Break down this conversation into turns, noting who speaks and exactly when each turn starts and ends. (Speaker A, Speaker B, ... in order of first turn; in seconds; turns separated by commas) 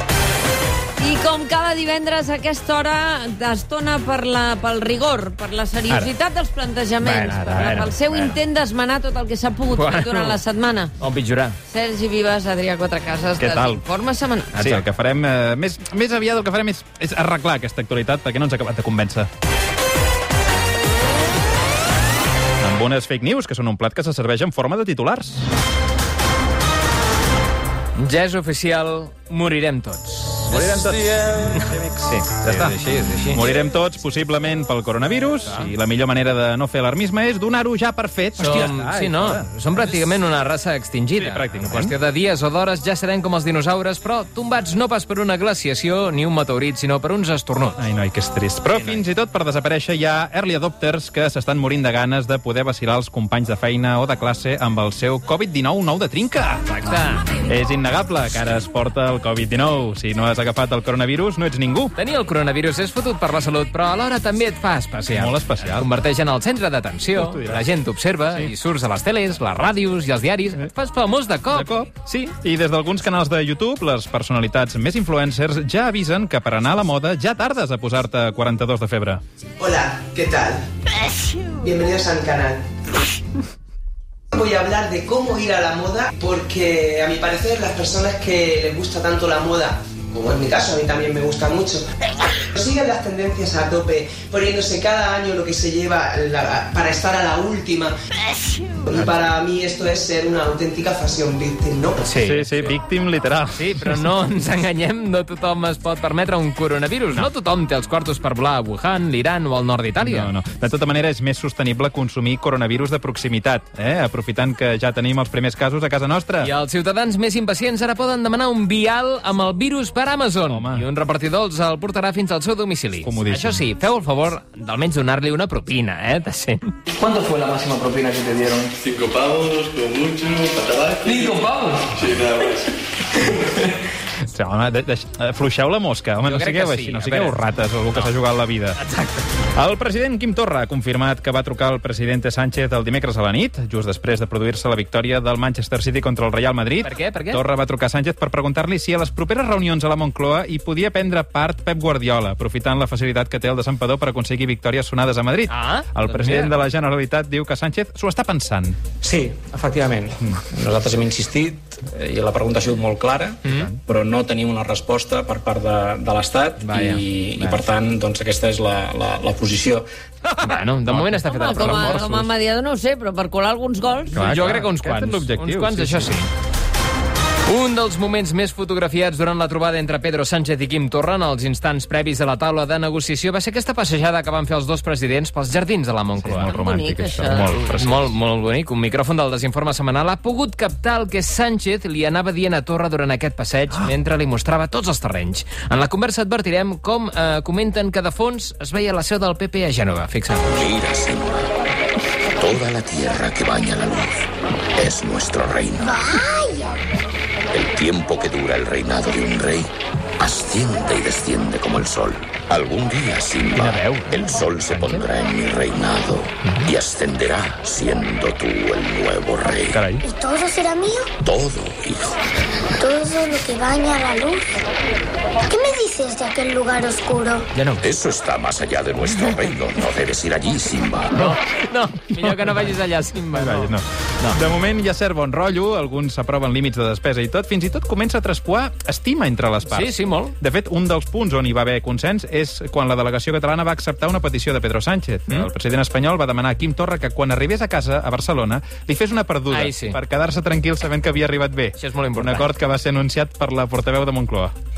Speaker A: 1.0-10.9, Speaker B: 7.0-8.3, Speaker B: 9.7-10.4, Speaker B: 11.0-11.6, Speaker A: 11.6-14.5, Speaker C: 13.4-13.8, Speaker B: 14.5-14.8, Speaker C: 14.6-19.3, Speaker C: 22.6-25.4, Speaker B: 28.0-33.5, Speaker C: 30.5-32.7, Speaker C: 33.3-39.9, Speaker B: 35.4-35.7, Speaker B: 38.4-47.8, Speaker C: 41.1-41.9, Speaker C: 47.8-56.6, Speaker B: 48.7-49.0, Speaker B: 56.7-57.2, Speaker C: 57.4-61.9, Speaker B: 62.0-72.3, Speaker C: 65.1-65.9, Speaker C: 67.2-67.6, Speaker C: 71.5-79.2, Speaker D: 79.6-80.6, Speaker D: 81.6-82.6, Speaker D: 84.3-91.8, Speaker D: 92.5-97.9, Speaker D: 98.8-102.0, Speaker B: 102.0-102.5, Speaker C: 102.2-104.0, Speaker B: 103.6-110.3, Speaker C: 110.0-116.5, Speaker B: 116.4-126.7, Speaker C: 120.5-120.8, Speaker C: 123.0-123.6, Speaker E: 127.0-128.7, Speaker F: 128.8-131.2, Speaker E: 131.0-131.8, Speaker C: 134.3-138.8, Speaker B: 136.2-137.4, Speaker B: 138.8-139.3, Speaker C: 139.5-158.8, Speaker B: 146.8-147.4, Speaker B: 155.5-156.6, Speaker G: 159.0-169.8, Speaker B: 163.4-163.7, Speaker B: 166.6-167.6, Speaker B: 170.4-172.1, Speaker C: 170.9-172.3, Speaker A: 171.2-174.2, Speaker C: 174.1-176.2, Speaker B: 174.1-176.3, Speaker B: 177.5-186.5, Speaker C: 186.2-188.1, Speaker A: 186.4-187.6, Speaker B: 187.3-200.6, Speaker H: 200.5-201.5, Speaker H: 202.3-206.1, Speaker I: 205.8-206.6, Speaker H: 207.5-219.8, Speaker C: 213.5-215.0, Speaker C: 219.7-220.0, Speaker I: 220.0-221.1, Speaker H: 221.2-222.2, Speaker I: 222.8-224.6, Speaker I: 225.5-227.5, Speaker B: 227.5-227.8, Speaker H: 227.8-231.3, Speaker B: 231.1-234.4, Speaker C: 233.3-254.5, Speaker B: 239.7-240.3, Speaker B: 249.5-250.0, Speaker B: 251.8-252.5